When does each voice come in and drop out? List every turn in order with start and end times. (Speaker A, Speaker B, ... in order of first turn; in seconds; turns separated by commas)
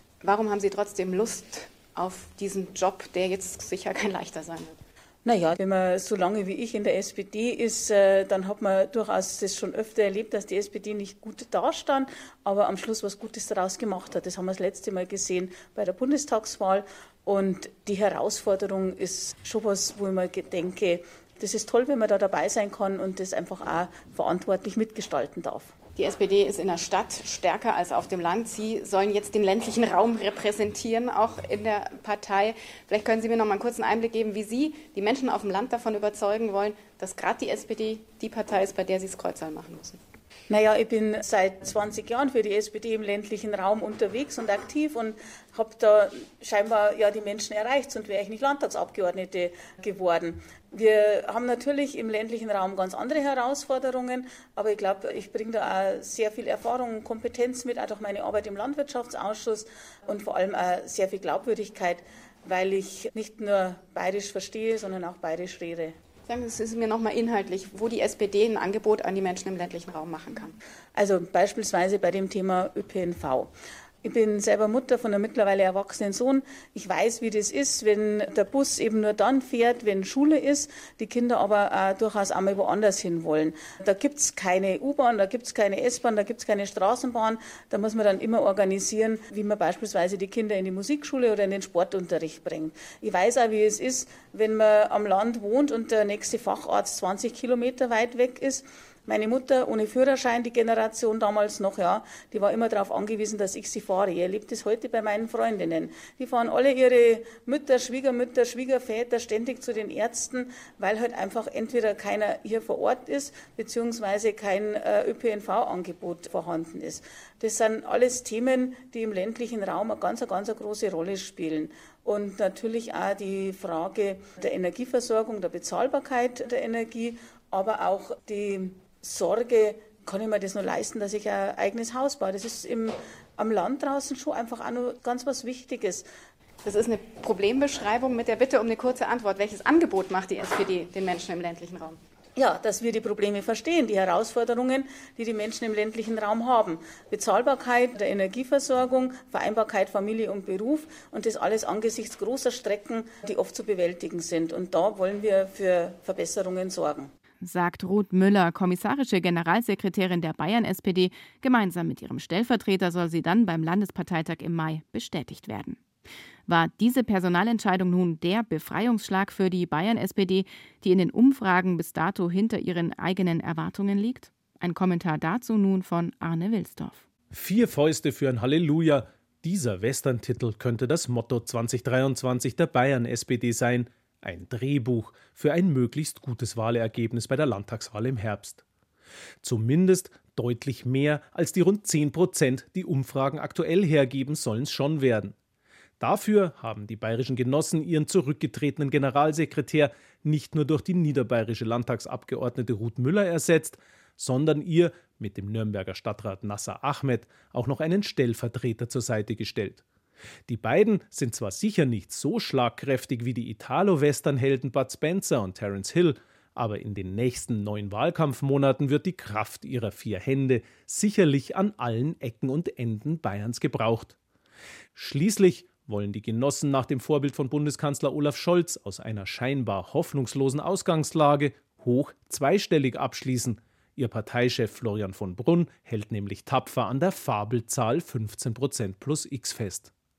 Speaker A: 0.2-4.8, Speaker B: 5.2-25.8, Speaker A: 25.9-40.0, Speaker B: 40.5-66.0, Speaker A: 66.3-70.6, Speaker B: 71.0-73.5, Speaker B: 74.0-136.1, Speaker A: 136.6-142.0, Speaker B: 142.4-157.1, Speaker C: 157.4-165.8, Speaker C: 166.5-177.0, Speaker D: 177.3-188.6, Speaker D: 189.4-195.3, Speaker D: 196.0-209.8, Speaker D: 210.5-224.2, Speaker D: 224.9-239.9